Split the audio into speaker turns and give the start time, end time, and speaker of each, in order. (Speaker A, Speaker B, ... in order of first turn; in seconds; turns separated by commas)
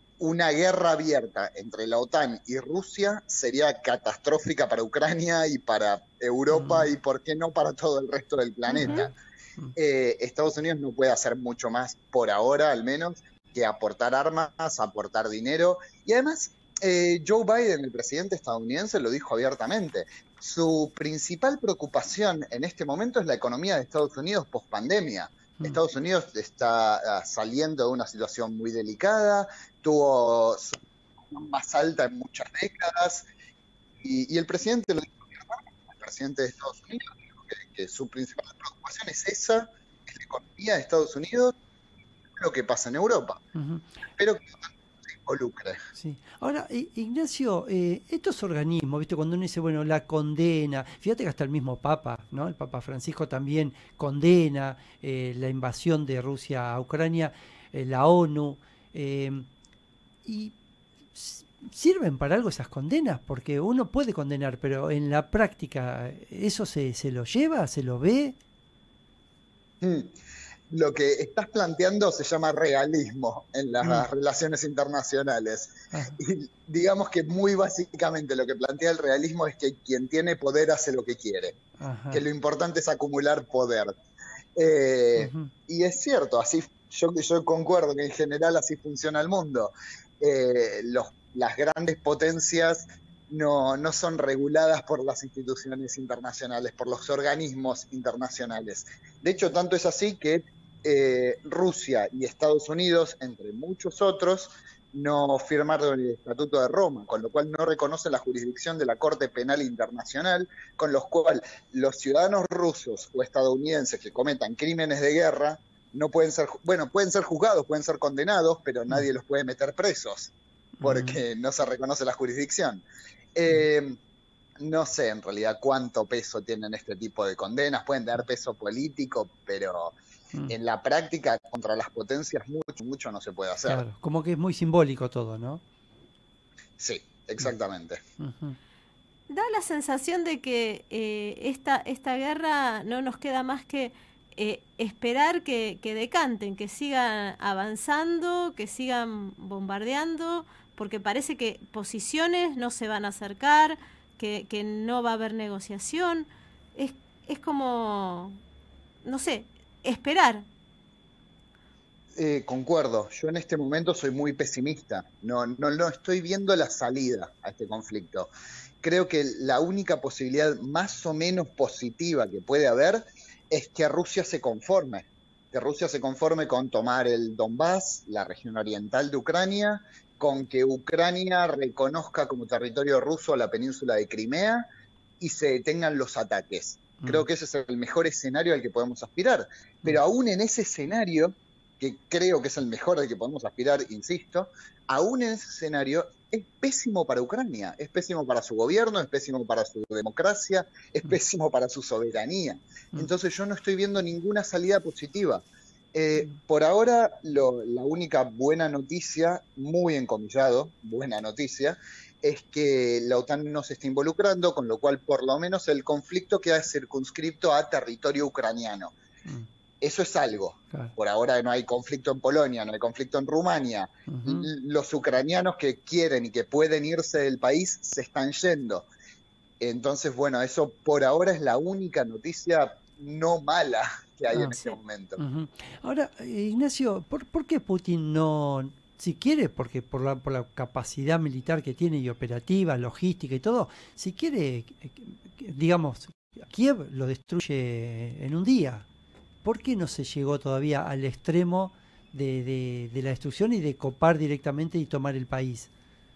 Speaker A: 0.2-9.1, Speaker B: 6.5-6.9, Speaker C: 8.7-9.1, Speaker B: 8.7-9.7, Speaker A: 9.8-33.3, Speaker A: 34.0-41.6, Speaker A: 42.4-43.4, Speaker B: 43.5-43.8, Speaker A: 44.1-45.8, Speaker B: 46.0-59.5, Speaker B: 60.2-60.5, Speaker B: 61.1-68.4, Speaker A: 69.8-70.1, Speaker A: 70.7-81.6, Speaker B: 75.9-76.2, Speaker B: 81.8-82.2, Speaker A: 82.1-83.9, Speaker A: 84.6-122.8, Speaker B: 85.2-85.5, Speaker B: 120.8-121.2, Speaker A: 123.3-124.0, Speaker A: 124.6-129.9, Speaker A: 130.5-133.8, Speaker B: 133.7-135.6, Speaker A: 136.8-138.0, Speaker B: 138.2-138.6, Speaker C: 139.3-158.4, Speaker C: 159.0-160.4, Speaker A: 162.2-168.3, Speaker A: 168.8-184.7, Speaker A: 185.2-218.9, Speaker B: 187.0-187.2, Speaker A: 219.8-228.8, Speaker B: 224.1-224.5, Speaker A: 229.6-235.2, Speaker B: 235.2-248.8, Speaker B: 249.4-255.7